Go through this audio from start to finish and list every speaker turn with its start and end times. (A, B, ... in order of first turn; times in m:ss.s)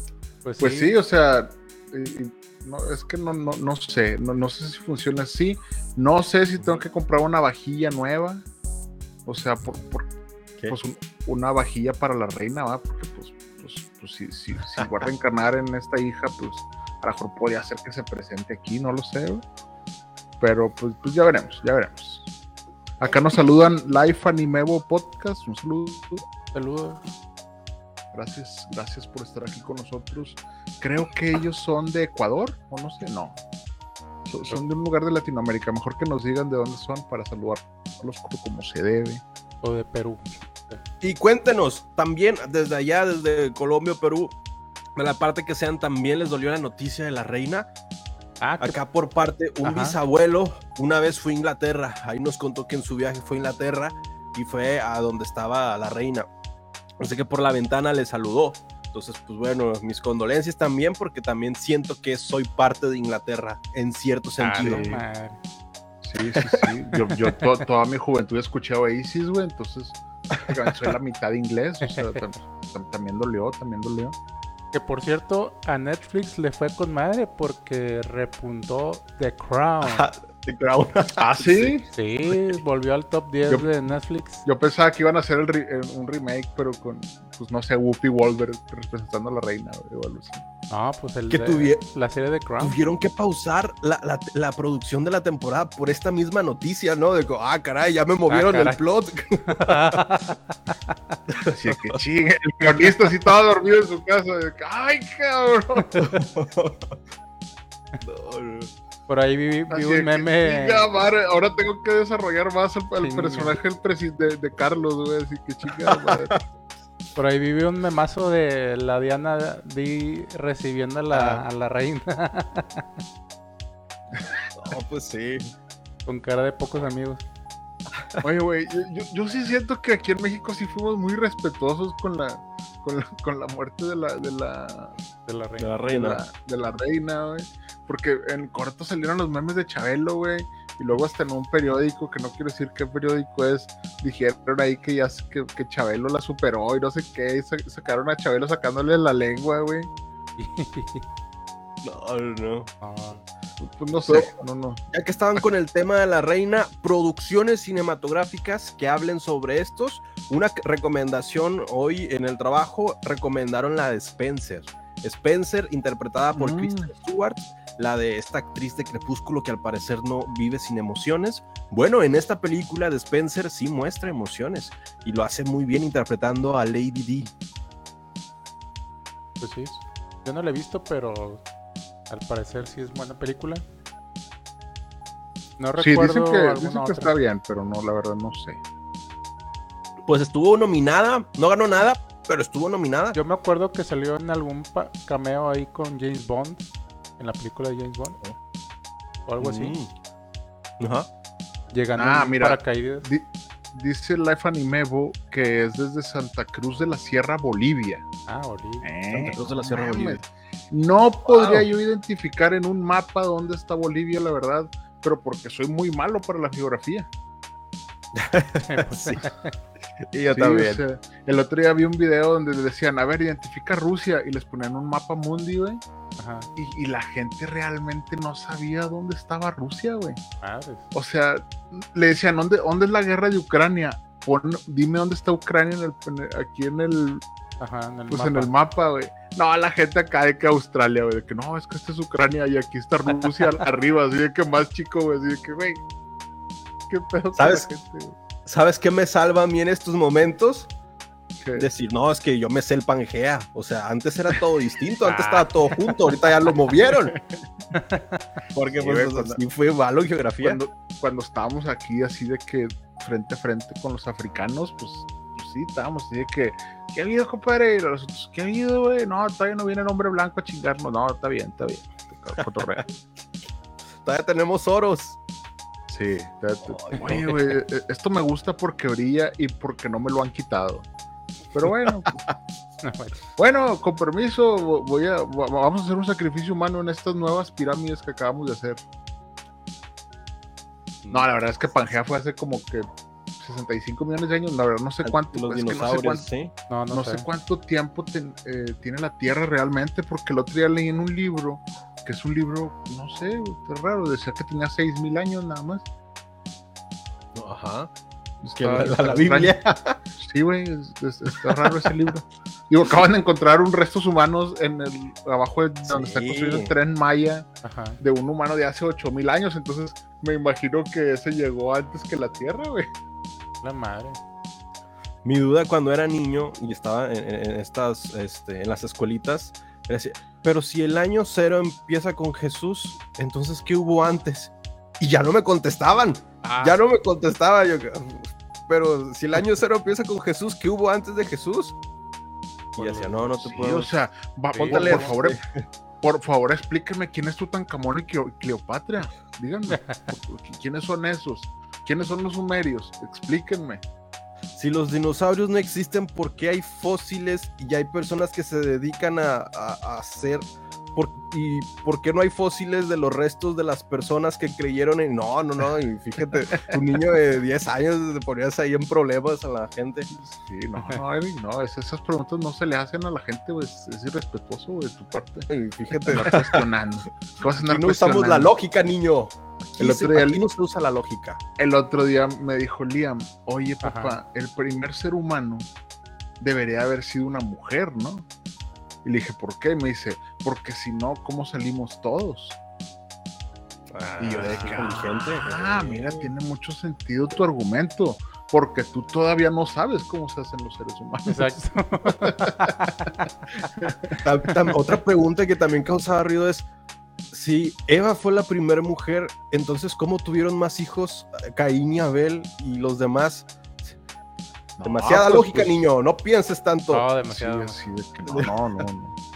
0:00.4-0:00.9 A
0:00.6-0:08.4 B
0:09.2-0:10.1 B
0:10.7-0:19.4 B
0:20.4-0:22.3 B
0:23.0-0:26.2 B
0:26.5-0:27.0 A
0:28.1-0:33.4 B
0:34.3-0:39.2 B
0:39.6-0:40.8 A
0:41.0-0:44.3 C
0:45.0-0:47.7 C
0:48.4-0:48.8 A
0:48.6-0:56.3 C
0:49.6-0:50.0 A
0:57.0-1:04.8 C
1:04.4-1:05.4 A
1:04.6-1:05.0 B
1:06.0-1:14.1 B
1:06.9-1:07.4 A
1:11.8-1:12.2 A
1:14.7-1:20.1 A
1:19.8-1:21.7 C
1:21.2-1:21.9 B
1:21.9-1:24.4 A
1:24.4-1:30.4 B
1:30.7-1:32.8 A
1:31.3-1:31.8 C
1:32.6-1:40.0 C
1:38.3-1:38.8 A
1:39.4-1:41.1 A
1:41.3-1:41.9 C
1:41.5-1:46.2 B
1:46.0-1:47.0 C
1:48.0-1:48.7 C
1:49.1-1:50.9 A
1:49.7-1:56.4 B
1:53.0-1:53.6 A
1:55.8-1:56.4 C
1:57.2-2:02.9 A
2:01.1-2:01.4 C
2:04.6-2:05.5 C
2:06.0-2:07.2 A
2:08.2-2:14.9 B
2:15.2-2:15.7 A
2:15.6-2:16.2 C
2:15.9-2:29.9 B
2:30.4-2:31.0 A
2:31.8-2:32.7 C
2:32.8-2:33.2 A
2:33.6-2:34.8 B
2:34.1-2:34.3 C
2:34.9-2:57.3 C
2:46.3-2:46.9 B
2:59.4-3:01.4 A
3:02.1-3:03.6 A
3:05.6-3:07.1 A
3:05.8-3:08.6 B
3:10.1-3:13.2 C
3:13.1-3:16.6 A
3:17.2-3:18.2 A
3:19.2-3:19.8 A
3:19.4-3:19.9 C
3:20.8-3:21.1 C
3:21.7-3:23.1 A
3:22.0-3:28.0 B
3:28.3-3:28.9 A
3:28.8-3:37.1 B
3:29.1-3:30.2 C
3:31.3-3:31.6 C
3:38.1-3:39.3 C
3:38.6-3:39.5 A
3:40.1-3:40.8 C
3:40.3-3:45.8 B
3:46.2-3:46.5 A
3:46.6-3:50.2 B
3:50.4-3:50.8 A
3:50.9-3:57.2 B
3:57.6-3:58.5 A
3:58.1-4:05.8 B
4:06.9-4:08.1 B
4:07.4-4:07.7 C
4:08.4-4:10.7 C
4:11.4-4:11.7 B
4:11.6-4:17.2 C
4:15.0-4:15.9 A
4:17.7-4:18.2 A
4:18.5-4:20.6 C
4:18.7-4:19.4 B
4:20.4-4:32.8 B
4:32.4-4:32.8 C
4:34.0-4:35.2 C
4:35.9-4:40.9 B
4:36.8-4:37.4 C
4:41.5-4:42.1 B
4:42.8-4:43.2 A
4:43.4-4:48.8 B
4:51.1-4:52.8 B
4:53.4-4:56.2 B
4:55.0-4:56.5 C
4:56.7-4:57.2 A
4:56.9-5:05.9 B
5:07.3-5:07.9 C
5:08.4-5:09.6 B
5:08.6-5:10.0 C
5:10.2-5:17.5 B
5:11.4-5:11.9 C
5:15.8-5:16.7 C
5:17.6-5:18.0 A
5:18.0-5:22.9 B
5:23.6-5:24.2 A
5:25.2-5:41.7 C
5:36.4-5:36.8 A
5:42.8-5:43.9 C
5:42.8-5:43.1 A
5:43.4-5:45.4 B
5:44.5-5:45.1 A
5:44.6-5:45.6 C
5:46.0-5:53.8 B
5:49.7-5:50.0 A
5:54.6-6:10.1 C
6:10.1-6:15.5 B
6:15.5-6:16.6 C
6:16.0-6:18.5 B
6:17.6-6:21.4 C
6:19.8-6:20.4 B
6:21.6-6:25.7 B
6:23.8-6:24.2 A
6:26.4-6:28.2 B
6:29.0-6:32.6 B
6:33.9-6:36.2 C
6:34.2-6:35.0 A
6:34.2-6:42.7 B
6:41.2-6:43.3 A
6:43.6-6:44.2 B
6:44.2-6:46.6 C
6:47.3-6:53.5 C
6:54.8-6:55.9 B
6:54.8-6:57.0 C
6:56.9-6:57.8 A
6:57.3-6:59.1 B